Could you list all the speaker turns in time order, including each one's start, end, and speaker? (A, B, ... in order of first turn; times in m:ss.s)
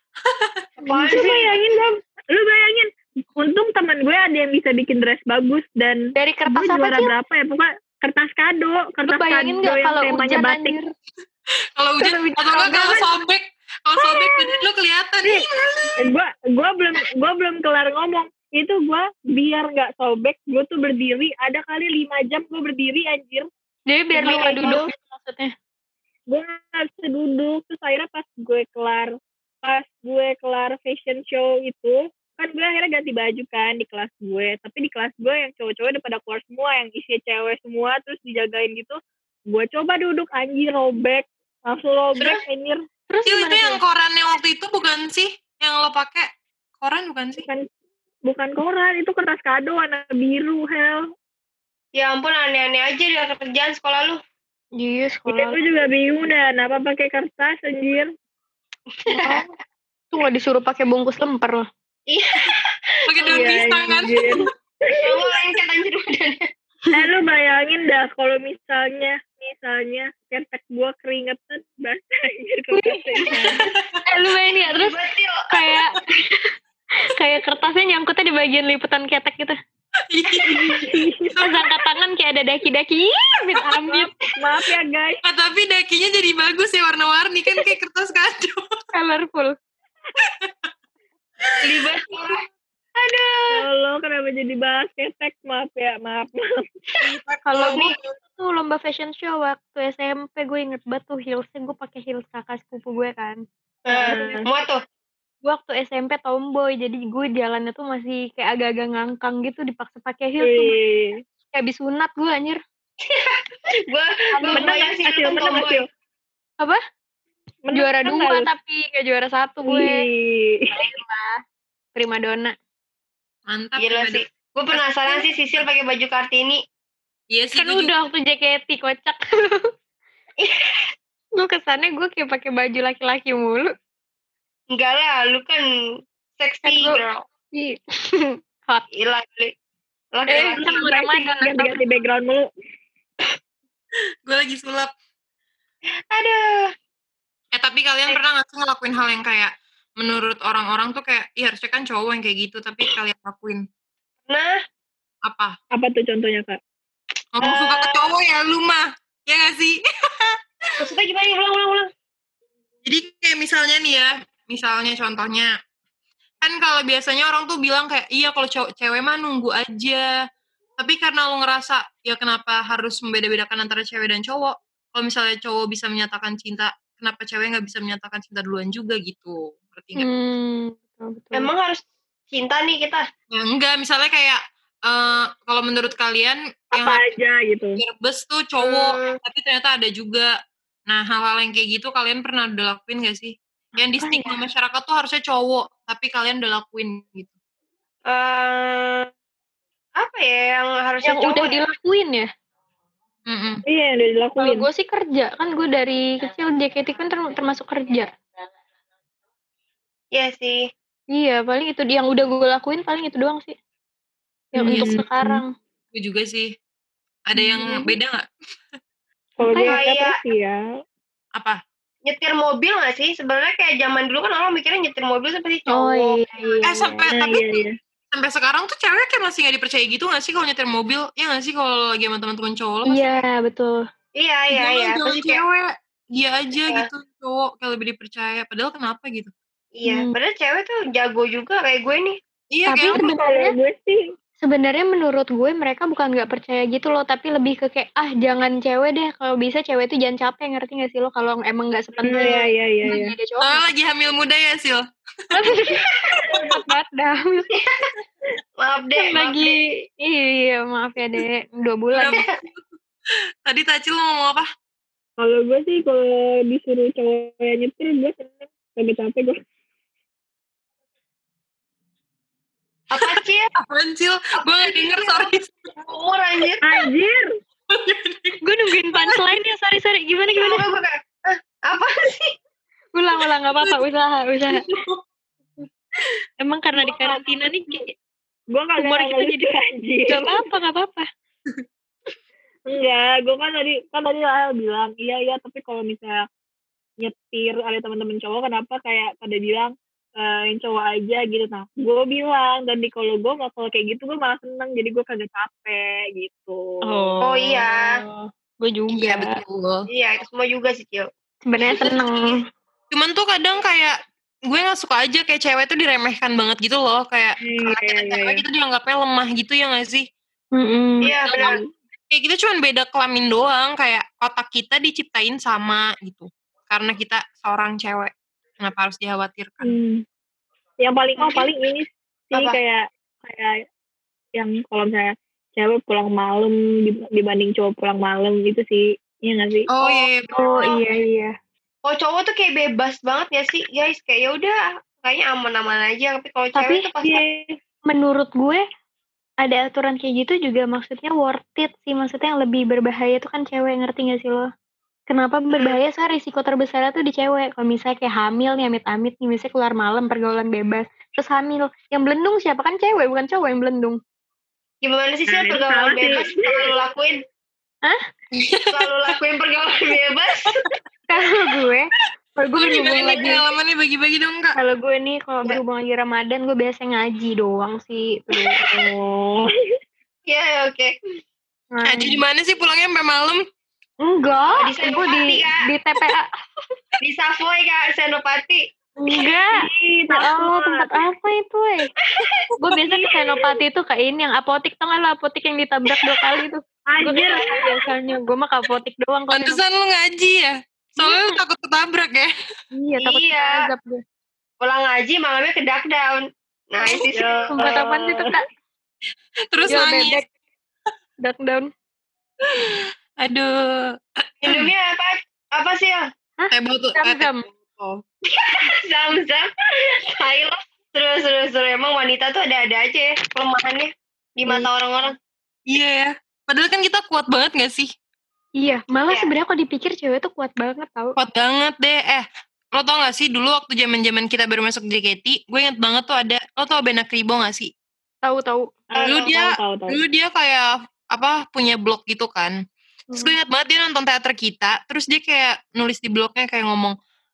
0:00.3-0:00.6 A
0:00.8-0:01.4 B
0:00.9-0:01.7 C
0:01.0-0:10.8 D
0:06.2-0:07.1 B
0:09.1-0:10.9 B
0:11.8-0:16.0 A
0:12.0-0:13.1 B
0:16.0-0:23.5 D
0:23.9-0:25.5 B
0:24.2-0:24.9 D
0:24.2-0:24.8 C
0:26.3-0:39.0 D
0:39.5-0:42.8 D
0:43.1-0:43.8 B
0:43.3-0:46.3 A
0:46.8-0:47.5 A
0:47.4-0:47.7 D
0:48.3-0:51.0 D
0:52.0-0:54.2 C
0:54.8-0:55.6 B
0:55.3-0:58.1 D
0:59.0-0:59.4 C
0:59.1-0:59.5 B
1:00.1-1:01.7 B
1:02.1-1:03.5 C
1:03.1-1:04.4 A
1:03.2-1:04.2 B
1:03.9-1:05.3 D
1:05.0-1:06.5 C
1:06.9-1:13.6 D
1:12.7-1:13.3 B
1:13.6-1:14.0 A
1:14.1-1:15.0 B
1:14.5-1:15.5 C
1:15.5-1:16.5 B
1:17.0-1:19.6 B
1:20.1-1:20.9 A
1:20.6-1:21.4 D
1:21.4-1:24.1 B
1:23.7-1:25.2 D
1:25.2-1:28.7 A
1:28.9-1:29.6 B
1:30.2-1:30.5 A
1:31.6-1:32.4 C
1:33.0-1:33.6 C
1:33.5-1:36.7 D
1:37.0-1:38.0 A
1:37.4-1:43.4 B
1:37.6-1:37.9 C
1:43.9-1:44.8 C
1:43.9-1:44.4 B
1:44.0-1:44.5 D
1:45.4-1:50.8 B
1:50.4-1:51.2 D
1:51.5-1:52.6 B
1:53.0-1:55.8 C
1:54.4-1:54.7 B
1:54.5-1:55.9 D
1:57.6-1:58.5 D
1:57.7-2:00.0 B
1:59.7-2:00.7 D
2:00.7-2:01.4 B
2:02.0-2:02.6 B
2:03.5-2:04.8 A
2:03.8-2:06.6 C
2:07.3-2:07.9 A
2:07.6-2:09.7 B
2:10.4-2:10.8 C
2:11.4-2:13.7 B
2:14.7-2:15.6 C
2:16.4-2:17.2 C
2:16.6-2:17.0 B
2:17.5-2:18.8 B
2:19.0-2:19.5 C
2:20.1-2:20.8 C
2:20.3-2:21.8 B
2:20.4-2:22.5 D
2:24.3-2:24.9 A
2:26.1-2:26.7 C
2:27.5-2:33.6 A
2:34.3-2:34.5 C
2:35.3-2:35.6 A
2:35.7-2:36.6 D
2:37.4-2:40.4 A
2:37.4-2:38.0 C
2:40.8-2:41.9 C
2:42.8-2:45.5 A
2:46.4-2:50.1 A
2:50.8-3:00.1 A
3:00.0-3:01.5 B
3:01.3-3:03.0 C
3:03.3-3:07.0 A
3:06.7-3:07.8 D
3:07.8-3:10.3 A
3:08.6-3:09.2 C
3:10.9-3:17.3 A
3:13.8-3:14.4 B
3:18.1-3:19.1 C
3:20.0-3:21.6 C
3:21.0-3:22.3 B
3:23.3-3:23.6 A
3:23.7-3:24.7 D
3:24.4-3:28.1 B
3:30.1-3:30.6 C
3:31.1-3:33.6 B
3:34.5-3:35.4 D
3:34.5-3:35.5 B
3:34.7-3:35.0 A
3:35.9-3:36.5 A
3:37.3-3:38.2 A
3:37.4-3:37.9 B
3:39.4-3:40.6 D
3:39.4-3:39.8 B
3:39.6-3:40.2 C
3:42.1-3:46.5 C
3:45.7-3:47.1 B
3:46.6-3:53.2 A
3:47.1-3:47.8 D
3:52.9-3:53.8 B
3:54.2-3:55.4 C
3:54.5-3:59.3 A
3:59.8-4:02.2 C
3:59.9-4:00.1 B
4:02.5-4:03.0 A
4:02.7-4:03.6 B
4:02.9-4:04.0 D
4:04.4-4:13.7 B
4:12.0-4:13.2 D
4:12.1-4:12.5 C
4:13.4-4:14.8 A
4:15.3-4:17.5 B
4:17.6-4:17.9 C
4:18.6-4:19.5 C
4:19.0-4:22.2 B
4:22.0-4:22.6 A
4:23.5-4:24.5 A
4:25.2-4:29.4 D
4:32.9-4:33.5 C
4:33.0-4:35.5 A
4:34.4-4:36.7 C
4:36.6-4:37.3 D
4:37.7-4:38.4 A
4:38.4-4:40.6 B
4:40.3-4:42.3 C
4:43.0-4:44.6 B
4:44.6-4:45.0 A
4:46.4-4:47.9 B
4:46.8-4:47.4 D
4:48.5-4:50.4 D
4:48.8-4:49.5 B
4:50.1-4:51.1 B
4:52.7-4:56.2 D
4:57.0-5:07.1 D
5:06.9-5:09.4 B
5:07.2-5:07.9 C
5:08.9-5:09.8 A
5:09.9-5:11.1 C
5:11.4-5:12.4 B
5:11.6-5:12.4 C
5:12.9-5:14.0 A
5:14.5-5:20.1 A
5:17.4-5:18.4 D
5:20.6-5:21.1 B
5:21.0-5:21.6 C
5:21.2-5:21.6 A
5:22.1-5:29.8 A
5:29.6-5:30.0 D
5:30.8-5:33.5 D
5:31.2-5:31.5 C
5:34.4-5:39.7 D
5:39.7-5:40.3 A
5:39.8-5:40.7 C
5:40.3-5:41.3 B
5:41.9-5:47.2 C
5:46.6-5:46.8 B
5:47.0-5:47.5 D
5:47.9-5:48.6 B
5:49.4-5:54.5 B
5:55.1-6:04.0 B
6:04.8-6:07.2 C
6:05.3-6:06.7 D
6:08.5-6:08.8 A
6:08.5-6:10.6 C
6:11.1-6:13.4 B
6:12.6-6:14.6 A
6:14.6-6:18.7 B
6:18.6-6:19.5 D
6:20.3-6:21.0 C
6:21.7-6:22.2 B
6:21.8-6:23.4 A
6:24.0-6:26.3 B
6:24.5-6:25.6 C
6:27.0-6:28.6 C
6:29.0-6:31.9 B
6:29.5-6:31.0 D
6:32.1-6:32.4 C
6:32.6-6:39.6 B
6:36.9-6:37.8 D
6:39.3-6:42.3 A
6:41.0-6:41.4 B
6:42.7-6:44.0 B
6:43.0-6:43.5 C
6:44.6-6:47.5 C
6:46.8-6:48.4 B
6:47.1-6:48.3 D
6:49.5-6:50.2 A
6:49.7-6:50.2 B
6:51.2-6:51.7 B
6:52.5-6:53.9 A
6:54.4-6:56.1 C
6:54.5-6:54.7 A
6:56.4-6:57.4 B
6:56.5-6:58.0 A
6:58.3-7:05.2 C
7:05.7-7:07.9 A
7:08.6-7:11.2 B
7:11.2-7:17.7 A
7:18.2-7:18.7 B
7:18.9-7:20.0 D
7:18.9-7:19.3 C
7:19.0-7:22.6 A
7:23.1-7:27.0 A